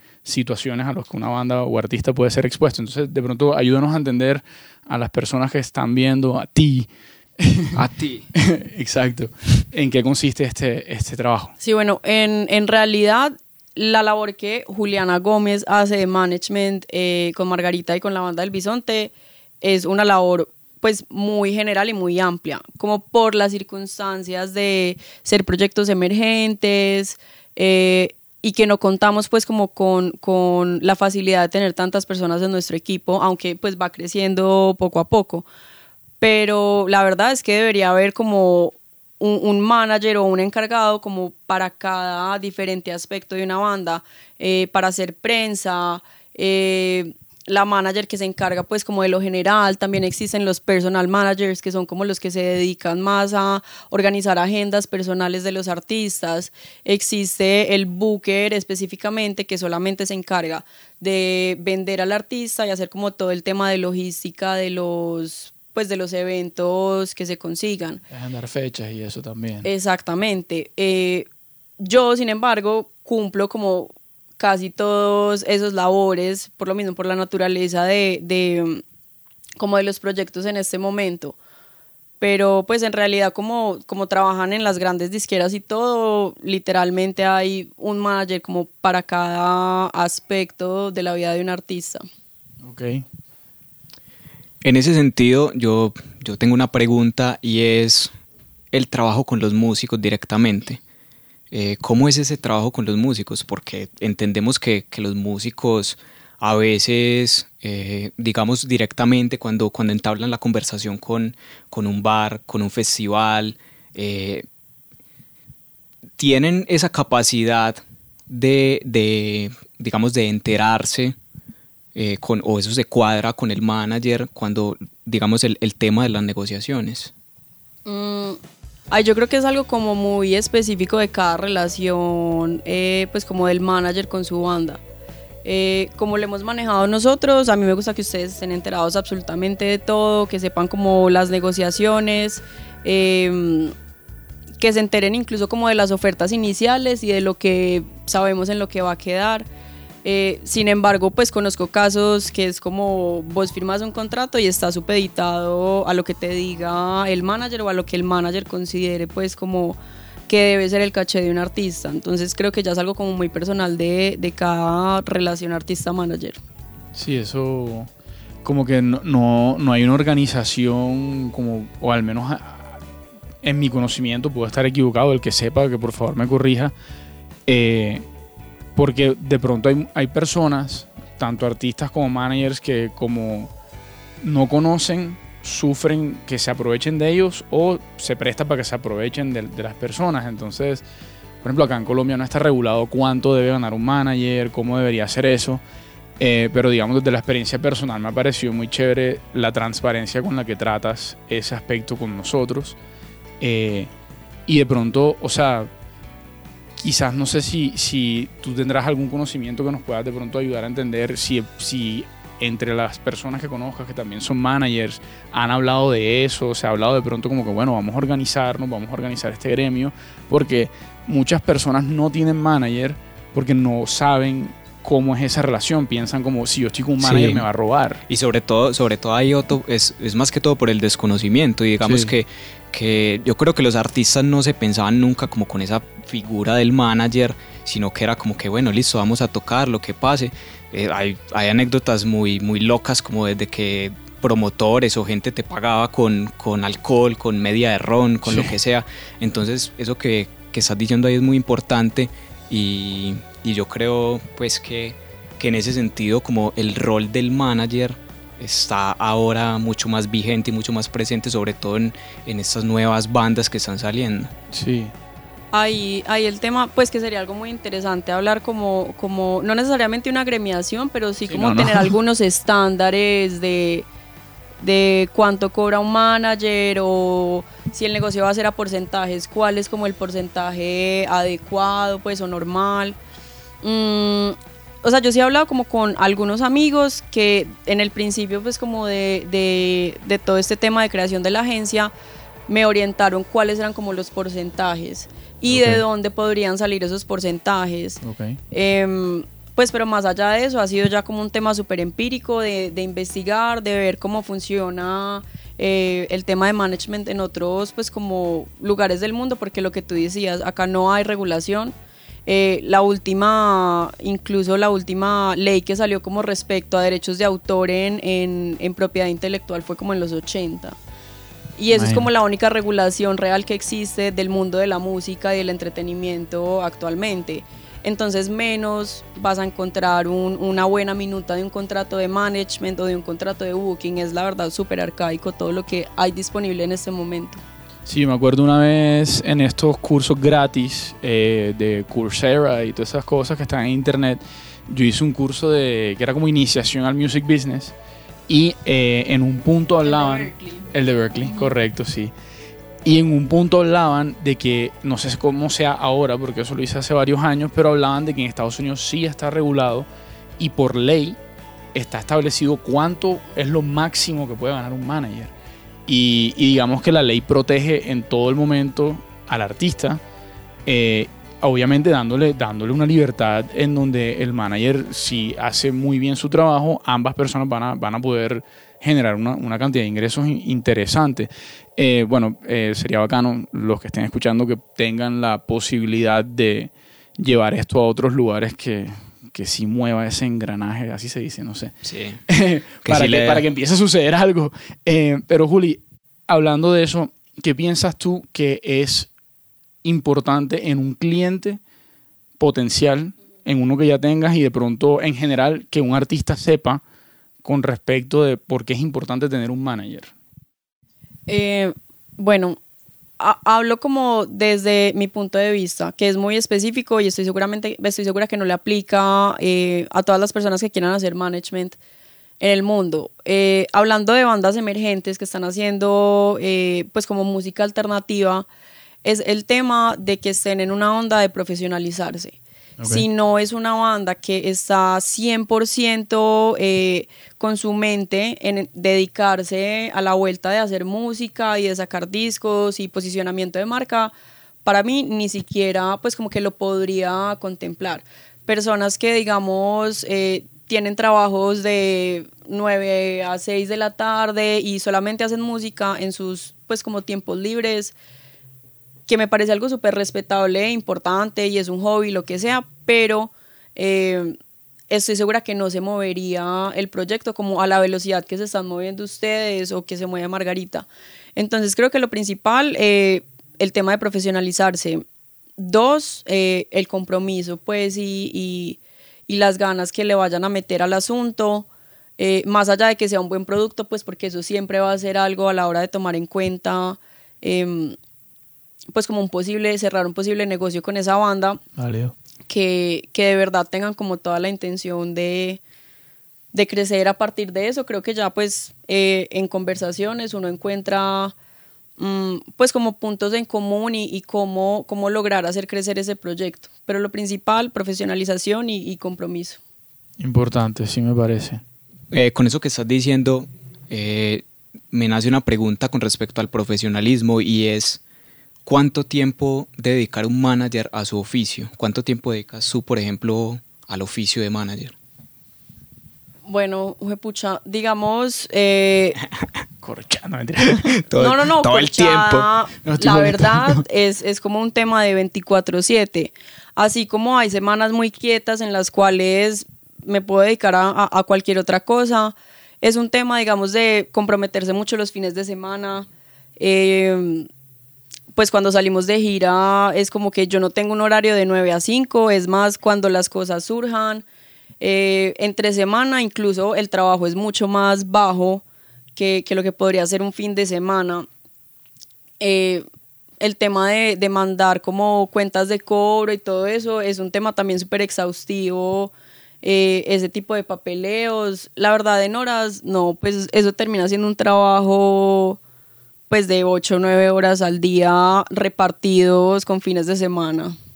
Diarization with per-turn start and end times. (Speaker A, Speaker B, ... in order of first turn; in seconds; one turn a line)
Speaker A: 0.2-6.9
Speaker A: 7.4-7.8
Speaker B: 7.7-8.3
Speaker A: 8.3-11.5
Speaker C: 11.6-35.5
Speaker C: 36.2-68.0
Speaker A: 68.1-69.7
Speaker C: 69.6-71.2
Speaker C: 71.8-78.8
Speaker C: 79.6-81.3
Speaker C: 82.2-92.0
Speaker A: 92.6-93.0
Speaker B: 94.6-98.1
Speaker B: 98.7-100.8
Speaker B: 101.5-114.5
Speaker B: 116.2-121.2
Speaker B: 121.9-127.1
Speaker C: 127.8-134.8
Speaker C: 135.4-143.7
Speaker C: 144.6-149.5
Speaker C: 150.0-159.8
Speaker C: 160.3-166.4
Speaker A: 166.9-167.9
Speaker A: 168.4-172.8
Speaker A: 173.4-176.7
Speaker A: 177.5-178.1
Speaker A: 178.8-183.5
Speaker A: 184.2-190.8
Speaker A: 191.4-195.6
Speaker A: 196.2-202.8
Speaker A: 203.4-203.9
Speaker A: 204.5-205.7
Speaker A: 206.8-228.0
Speaker B: 227.0-227.4
Speaker B: 228.1-264.3
Speaker A: 231.8-232.1
Speaker A: 248.3-248.5
Speaker A: 264.5-264.9
Speaker C: 265.5-273.9
Speaker A: 271.3-271.9
Speaker C: 274.6-283.0
Speaker C: 283.6-291.9
Speaker C: 292.5-311.7
Speaker A: 295.5-295.8
Speaker A: 298.0-298.4
Speaker C: 312.2-320.8
Speaker C: 321.6-337.4
Speaker A: 321.7-322.1
Speaker A: 337.9-347.7
Speaker A: 348.3-352.1
Speaker C: 349.8-350.6
Speaker A: 352.8-359.9
Speaker A: 360.4-361.2
Speaker A: 361.7-365.3
Speaker A: 365.9-370.0
Speaker A: 370.6-391.7
Speaker B: 391.8-392.2
Speaker A: 392.3-399.1
Speaker B: 392.8-393.4
Speaker A: 399.8-401.6
Speaker A: 402.4-406.8
Speaker A: 407.4-410.1
Speaker C: 411.3-412.6
Speaker C: 413.2-421.8
Speaker C: 422.4-428.5
Speaker C: 429.0-444.1
Speaker A: 432.8-433.0
Speaker C: 444.6-457.9
Speaker C: 459.1-464.4
Speaker C: 464.9-475.0
Speaker C: 475.6-481.7
Speaker C: 482.2-487.9
Speaker C: 488.9-491.6
Speaker A: 491.8-492.1
Speaker C: 492.5-495.6
Speaker C: 496.5-501.3
Speaker C: 502.0-509.6
Speaker A: 510.2-511.6
Speaker B: 512.1-518.0
Speaker B: 518.6-524.9
Speaker C: 526.5-529.2
Speaker A: 529.8-531.0
Speaker B: 530.7-532.5
Speaker C: 531.2-546.1
Speaker A: 532.8-533.8
Speaker C: 546.6-547.5
Speaker C: 548.3-554.2
Speaker C: 554.8-558.6
Speaker C: 559.1-561.3
Speaker C: 562.4-562.8
Speaker C: 563.4-575.6
Speaker C: 576.3-580.8